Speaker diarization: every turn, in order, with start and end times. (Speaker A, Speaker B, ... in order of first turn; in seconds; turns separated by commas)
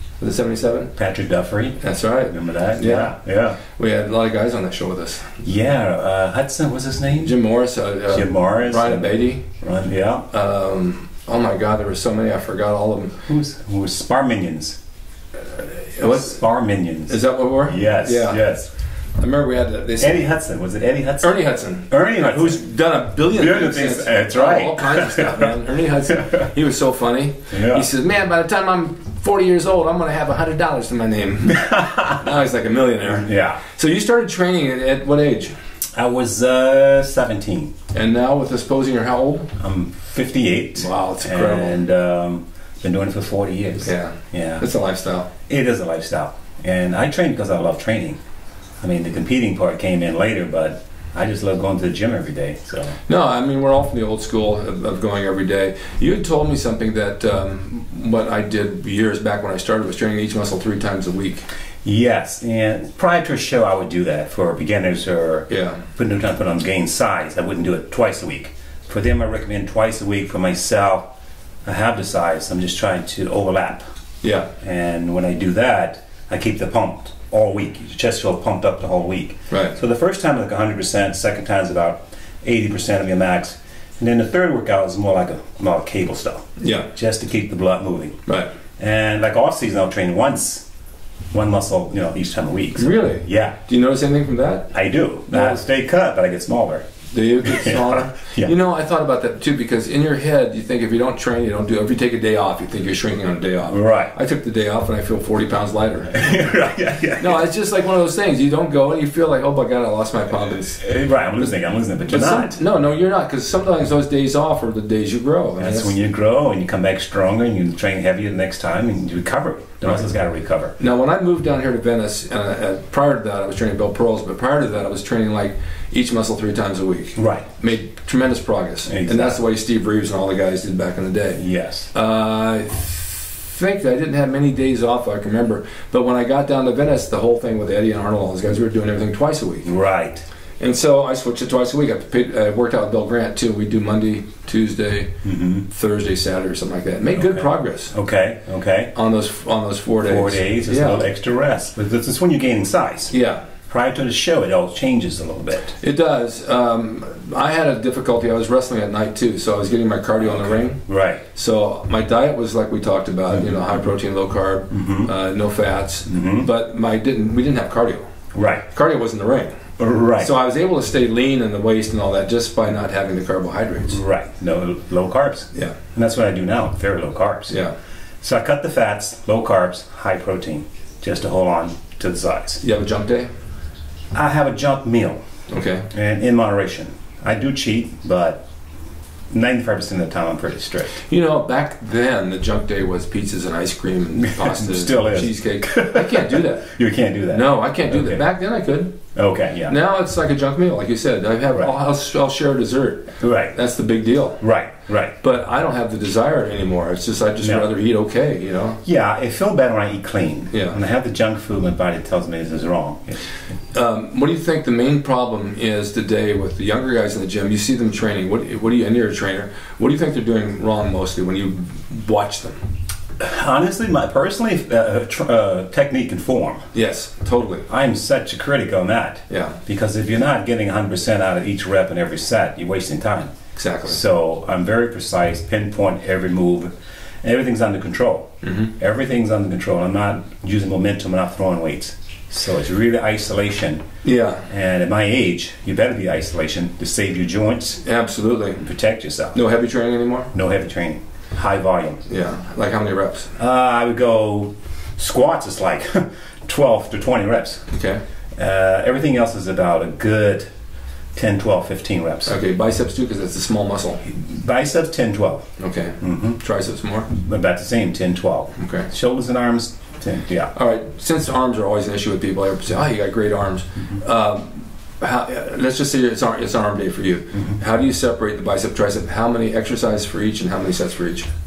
Speaker A: 0.2-0.9, Speaker B: 0.9-3.6, Speaker A: 1.8-5.4, Speaker B: 5.4-7.4, Speaker A: 7.2-9.4, Speaker B: 8.1-10.3, Speaker A: 10.3-13.2, Speaker B: 13.2-14.8, Speaker A: 15.8-16.3, Speaker B: 16.0-18.7, Speaker A: 17.1-18.4, Speaker A: 19.2-20.2, Speaker B: 20.0-21.4, Speaker A: 21.2-35.5, Speaker B: 21.9-22.6, Speaker B: 23.3-25.5, Speaker B: 26.1-26.4, Speaker B: 27.5-27.9, Speaker B: 31.5-32.2, Speaker B: 33.0-33.6, Speaker B: 35.9-37.7, Speaker A: 37.9-39.5, Speaker B: 39.6-44.7, Speaker A: 40.8-41.8, Speaker A: 43.8-45.3, Speaker B: 45.5-48.2, Speaker B: 48.8-53.0, Speaker A: 53.1-61.5, Speaker B: 61.8-71.1, Speaker A: 65.5-65.8, Speaker B: 71.6-73.8, Speaker A: 74.2-74.5, Speaker B: 74.6-88.2, Speaker A: 79.5-79.7, Speaker A: 86.6-86.9, Speaker B: 88.8-90.6, Speaker B: 91.3-93.6, Speaker A: 92.8-94.7, Speaker B: 94.7-96.9, Speaker A: 95.3-95.6, Speaker A: 97.1-106.4, Speaker B: 97.4-98.5, Speaker B: 103.7-104.1, Speaker B: 106.1-107.4, Speaker A: 107.2-110.8, Speaker B: 110.8-112.6, Speaker A: 112.1-115.9, Speaker B: 115.6-120.7, Speaker A: 120.8-139.7, Speaker B: 127.2-127.5, Speaker B: 128.8-129.4, Speaker B: 131.3-131.9, Speaker B: 139.6-140.2, Speaker A: 140.6-147.9, Speaker B: 145.2-145.7, Speaker B: 147.2-148.9, Speaker A: 148.9-151.0, Speaker B: 150.0-153.1, Speaker A: 153.1-153.4, Speaker B: 153.7-155.7, Speaker A: 155.8-160.8, Speaker B: 160.2-161.2, Speaker A: 161.3-168.0, Speaker B: 163.3-163.8, Speaker B: 164.7-165.1, Speaker B: 166.1-166.5, Speaker B: 168.3-168.6, Speaker A: 168.7-169.5, Speaker B: 169.8-170.3, Speaker A: 170.2-174.0, Speaker B: 173.9-177.6, Speaker A: 177.5-177.7, Speaker B: 178.2-182.6, Speaker A: 182.6-183.3, Speaker B: 184.1-185.2, Speaker A: 185.5-185.9, Speaker B: 185.9-188.4, Speaker B: 189.3-191.0, Speaker A: 191.0-196.7, Speaker B: 194.1-198.2, Speaker A: 197.3-198.9, Speaker B: 199.1-199.8, Speaker A: 199.7-204.4, Speaker B: 203.2-203.6, Speaker B: 204.4-205.2, Speaker A: 205.2-208.8, Speaker B: 207.4-207.7, Speaker B: 208.8-213.2, Speaker A: 210.5-210.8, Speaker A: 213.7-222.6, Speaker B: 223.2-226.7, Speaker A: 226.7-227.7, Speaker B: 227.7-233.3, Speaker A: 229.3-229.6, Speaker A: 233.6-234.0, Speaker B: 233.8-243.8, Speaker A: 238.4-238.7, Speaker A: 244.0-244.5, Speaker B: 244.5-247.8, Speaker A: 247.8-248.6, Speaker B: 248.6-249.4, Speaker A: 249.3-250.3, Speaker B: 250.3-252.0, Speaker A: 252.1-253.3, Speaker B: 253.4-257.6, Speaker A: 257.7-258.0, Speaker B: 258.4-260.5, Speaker B: 261.1-262.4, Speaker A: 262.2-264.0, Speaker B: 264.0-266.4, Speaker A: 265.6-267.1, Speaker B: 267.1-270.5, Speaker A: 268.6-268.9, Speaker A: 270.5-281.3